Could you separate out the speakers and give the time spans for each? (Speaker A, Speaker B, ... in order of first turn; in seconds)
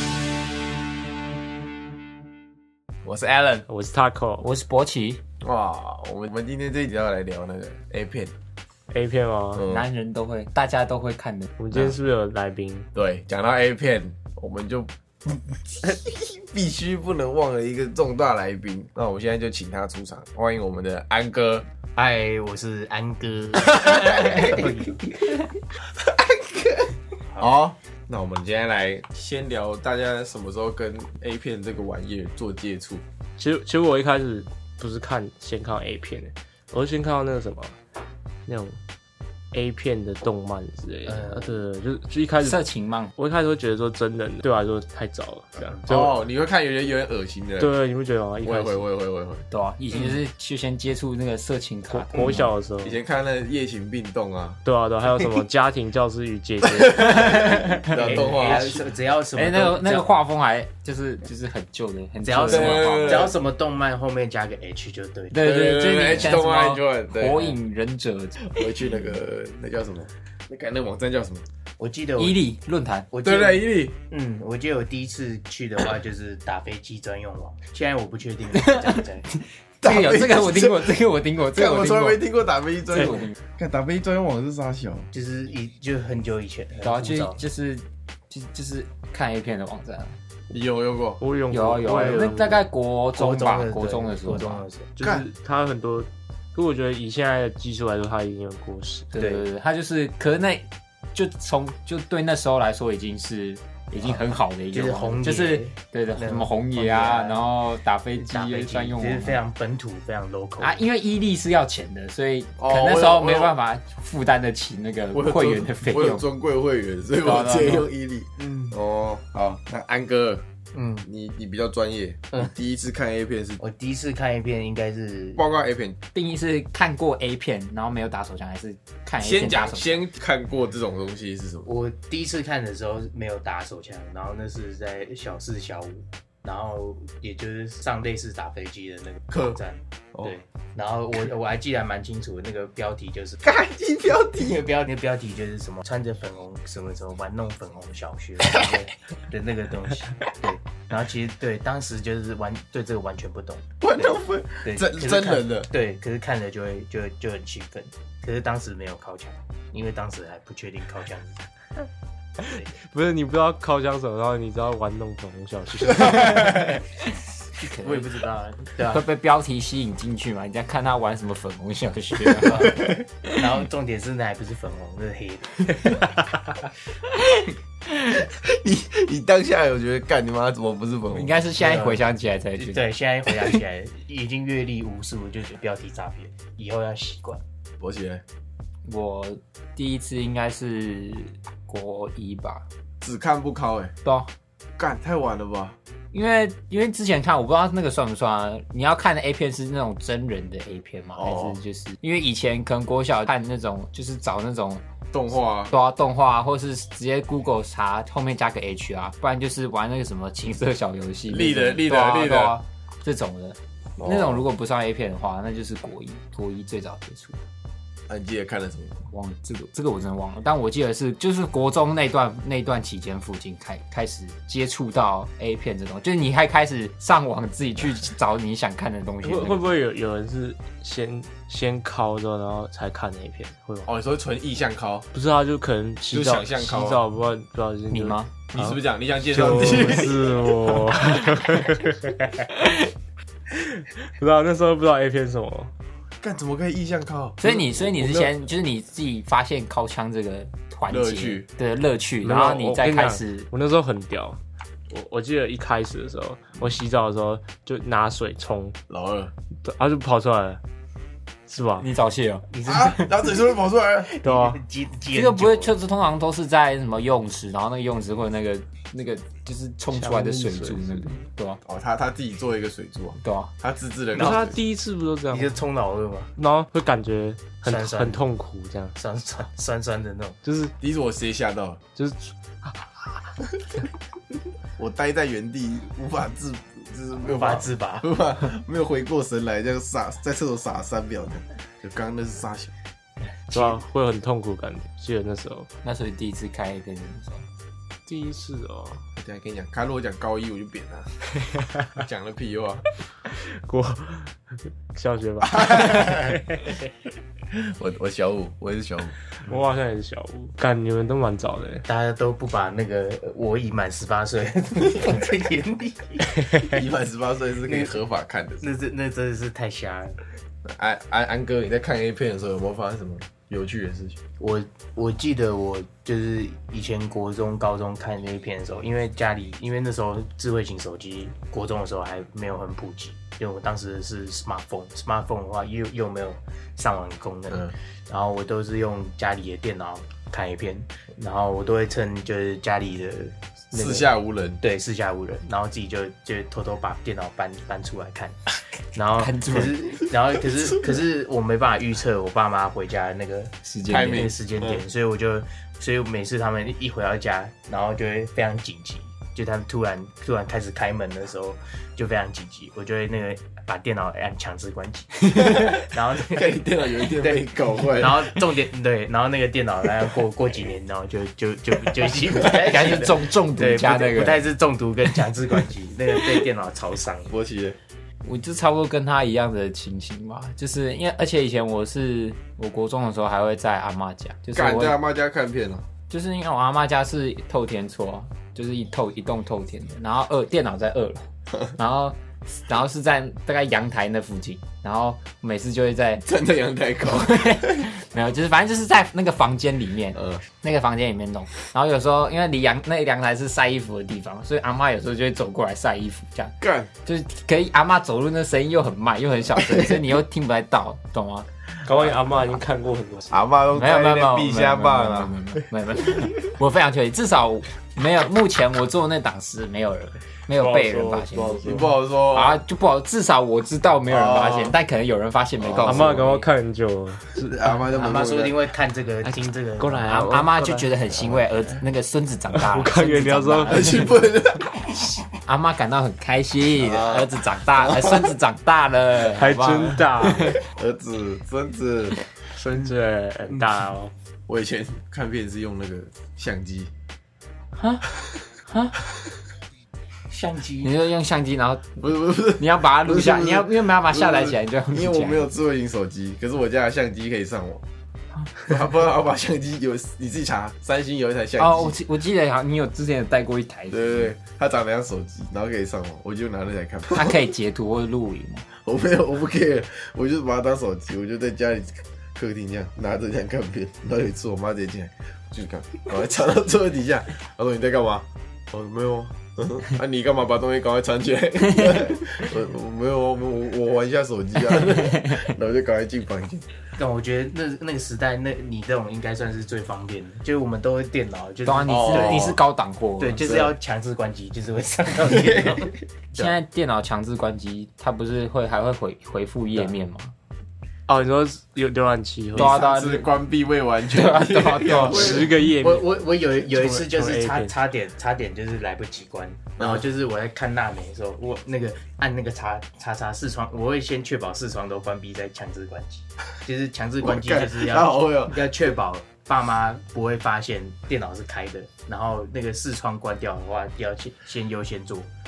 Speaker A: 3.0-3.7, 5.4-8.3, 9.6-9.9, 12.9-21.7, 23.9-24.7, 25.9-33.0, 45.9-47.7, 48.4-49.5, 52.8-54.6, 57.0-58.8, 62.5-63.3, 65.3-67.6, 68.4-71.5, 73.2-74.0, 79.8-81.0, 81.5-85.1, 90.5-91.2, 112.6-113.6, 115.1-120.4, 121.0-123.6, 125.4-126.0, 129.2-131.7, 139.3-139.6, 143.4-144.6, 153.8-155.7, 165.9-166.4, 172.6-173.0, 177.9-181.4, 187.8-188.2, 193.0-193.9, 194.8-195.8, 201.2-201.6, 205.1-205.8, 211.3-212.6, 214.0-214.5, 218.1-219.1, 233.9-235.1, 236.1-237.0, 238.5-240.9, 246.2-248.4, 250.9-251.5, 258.9-259.3, 262.6-264.1, 271.7-274.6, 280.8-281.8, 284.8-292.7, 299.2-301.3, 301.9-302.9, 307.5-309.2, 316.6-318.7, 320.6-324.2, 343.7-344.6, 353.9-354.8, 365.4-368.4, 377.3-377.8, 384.5-385.8, 396.2-397.9, 400.1-400.4, 406.6-406.9, 413.3-415.7, 421.7-422.6, 424.1-424.8, 425.6-426.3, 427.4-428.6, 433.7-435.2, 436.8-438.3, 440.6-442.2, 444.5-446.9, 452.0-457.8, 458.6-462.0, 463.9-467.4, 468.8-486.6, 491.9-492.6, 495.3-495.9, 502.6-505.6, 517.2-518.6
Speaker B: 3.7-4.5, 8.9-9.7, 11.6-12.9, 33.4-37.8, 38.5-38.8, 39.5-46.1, 47.6-48.9, 51.9-53.0, 54.6-57.7, 91.2-92.7, 95.0-99.1, 162.8-166.7, 229.2-233.9, 235.1-242.9, 243.5-245.7, 252.2-254.4, 254.9-258.8, 259.6-260.6, 261.5-261.9, 264.2-264.6, 270.0-271.2, 274.1-275.6, 276.4-278.9, 280.4-280.7, 282.0-283.2, 293.5-295.7, 298.1-299.0, 301.4-302.0, 303.2-304.4, 304.9-306.8, 309.4-311.9, 411.8-413.4, 420.6-421.9, 425.8-427.6, 429.8-430.9, 432.6-434.2, 439.2-440.6, 442.6-444.1, 501.1-502.8, 504.9-506.2, 506.8-507.7
Speaker C: 4.4-5.2, 9.6-11.5, 42.4-43.1, 49.5-52.5, 57.6-58.1, 59.4-63.3, 65.3-68.4, 72.2-73.1, 78.6-79.0, 79.8-82.2, 82.9-83.4, 86.8-90.2, 91.5-94.7, 99.1-109.4, 110.6-116.2, 117.2-117.9, 126.1-130.0, 166.2-166.7, 167.6-168.2, 168.8-173.3, 181.1-182.9, 188.8-192.7, 194.0-194.3, 196.1-204.8, 205.7-217.4, 219.1-229.7, 237.9-238.5, 247.4-253.5, 261.8-262.8, 265.1-271.6, 273.2-273.5, 295.8-297.4, 349.2-349.8, 353.6-354.3, 372.3-374.5, 378.2-385.0, 386.1-396.2, 397.0-412.2, 413.7-426.4, 430.1-434.2, 435.4-440.6, 447.8-448.1, 448.7-449.0, 450.8-455.5, 461.6-464.3, 467.1-468.7, 484.9-485.4, 491.6-493.6, 496.4-500.3, 502.6-503.4, 504.1-505.5
Speaker D: 22.0-25.4, 41.0-41.6, 45.6-45.9, 57.9-60.1, 62.2-65.4, 71.8-72.4, 73.1-79.3, 85.1-87.4, 93.2-95.2, 104.0-107.5, 108.2-110.8, 118.4-118.8, 120.7-121.1, 123.6-125.4, 131.7-143.4, 144.4-161.4, 162.4-162.7, 167.6-169.0, 172.4-176.1, 181.6-182.1, 182.6-187.4, 262.5-263.3, 264.1-265.7, 275.3-276.3, 277.6-278.2, 279.0-280.4, 287.2-288.1, 311.9-316.5, 318.6-320.2, 324.4-344.1, 344.6-348.4, 348.9-377.3, 427.9-430.1, 450.3-450.9, 487.0-492.6, 493.2-496.6, 505.6-525.3